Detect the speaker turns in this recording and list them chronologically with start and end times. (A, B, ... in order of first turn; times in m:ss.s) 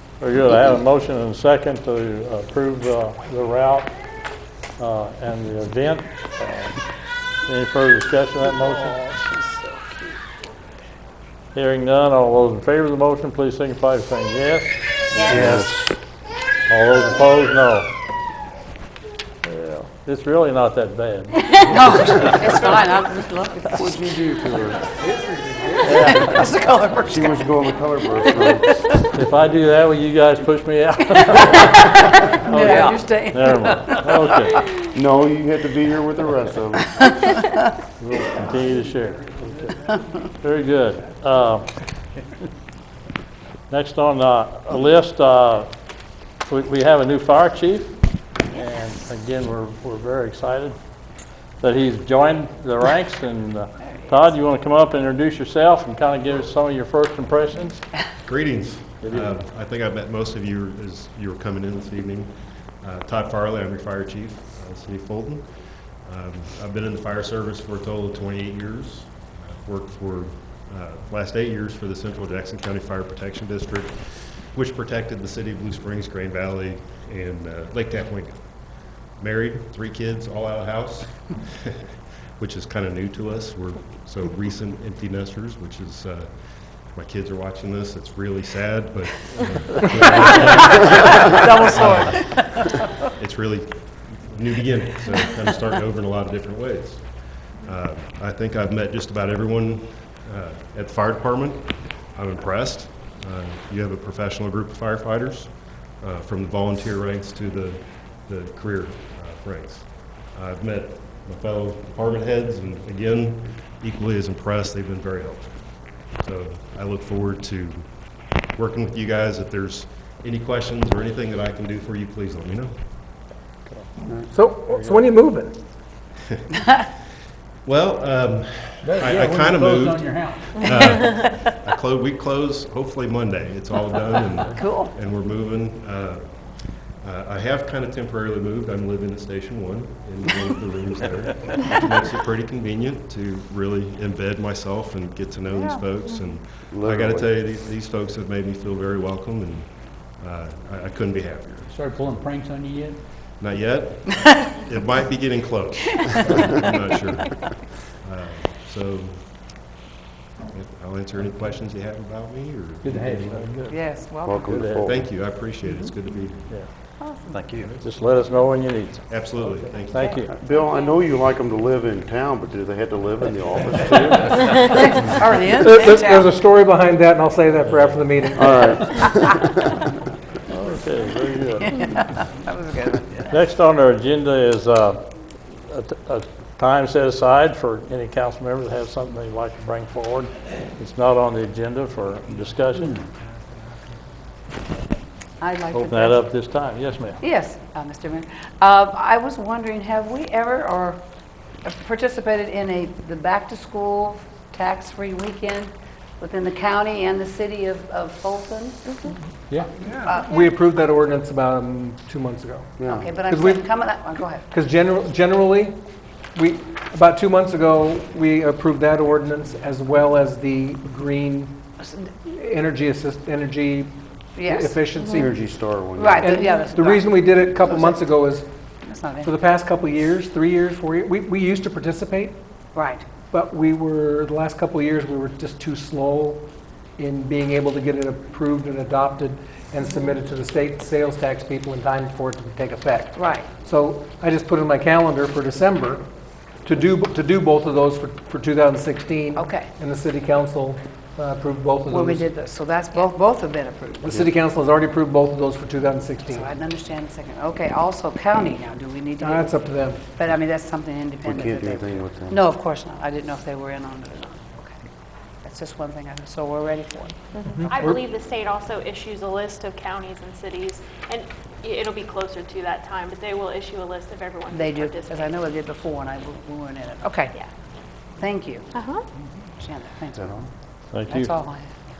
0:00.2-0:03.9 A
0:04.8-0:06.8 A
0:07.5-0:09.0 A
0:11.6-0:15.6 A
0:15.3-0:16.0 B
0:16.7-0:17.9 A
0:19.4-0:22.8 A
0:21.6-0:23.9 C
0:23.7-0:24.9 B
0:25.8-0:27.4 C
0:25.8-0:26.4 A
0:27.0-0:28.8 B
0:28.3-0:29.1 C
0:29.1-0:34.7 A
0:31.2-0:34.4 C
0:34.9-0:37.0 B
0:37.1-0:37.3 C
0:38.0-0:41.7 A
0:43.7-0:45.7 A
0:46.4-0:47.9 A
0:48.5-0:50.8 A
0:51.6-0:57.8 A
0:58.2-2:02.8 D
0:59.0-0:59.4 A
1:31.4-1:31.8 A
2:04.3-2:05.6 E
2:04.7-2:05.0 A
2:07.6-2:31.7 D
2:08.8-2:10.4 F
2:14.6-2:14.9 C
2:26.6-2:27.4 B
2:31.8-2:33.0 F
2:33.4-2:39.2 D
2:40.5-2:43.5 D
2:42.9-2:43.8 F
2:43.7-2:44.6 C
2:44.2-2:45.1 B
2:44.5-2:44.8 A
2:44.8-2:46.7 D
2:47.0-2:47.5 C
2:47.8-2:49.3 A
2:49.1-2:50.3 D
2:49.9-2:50.3 A
2:50.3-2:54.7 B
2:54.6-2:56.3 C
2:55.6-2:58.9 E
2:57.6-2:58.6 A
2:58.3-2:59.9 B
3:00.5-3:02.1 A
3:01.6-3:03.3 C
3:03.3-3:05.0 A
3:05.5-3:13.0 A
3:15.4-3:16.2 C
3:15.7-3:17.2 A
3:17.2-3:21.0 C
3:21.6-3:28.8 C
3:29.9-3:33.7 E
3:30.0-3:30.5 C
3:32.8-3:33.2 B
3:32.8-3:34.5 C
3:34.5-3:35.8 E
3:36.4-3:41.6 E
3:41.8-3:42.1 C
3:42.2-3:45.3 E
3:44.4-3:44.8 C
3:45.1-3:46.4 B
3:46.0-3:48.0 C
3:46.2-3:48.5 E
3:48.8-3:49.3 C
3:49.2-3:52.4 E
3:52.8-3:53.1 C
3:53.2-3:56.4 E
3:57.0-4:06.0 E
4:03.2-4:03.5 C
4:06.6-4:12.3 E
4:09.4-4:09.7 C
4:11.9-4:14.1 C
4:14.0-4:16.5 E
4:16.3-4:24.8 C
4:19.2-4:20.0 E
4:21.2-4:22.4 B
4:25.4-4:27.2 C
4:27.6-4:28.0 E
4:27.6-4:35.3 G
4:34.5-4:37.3 C
4:38.2-4:38.8 C
4:38.8-4:39.0 G
4:39.6-4:40.5 C
4:40.9-4:41.3 A
4:41.1-4:41.8 C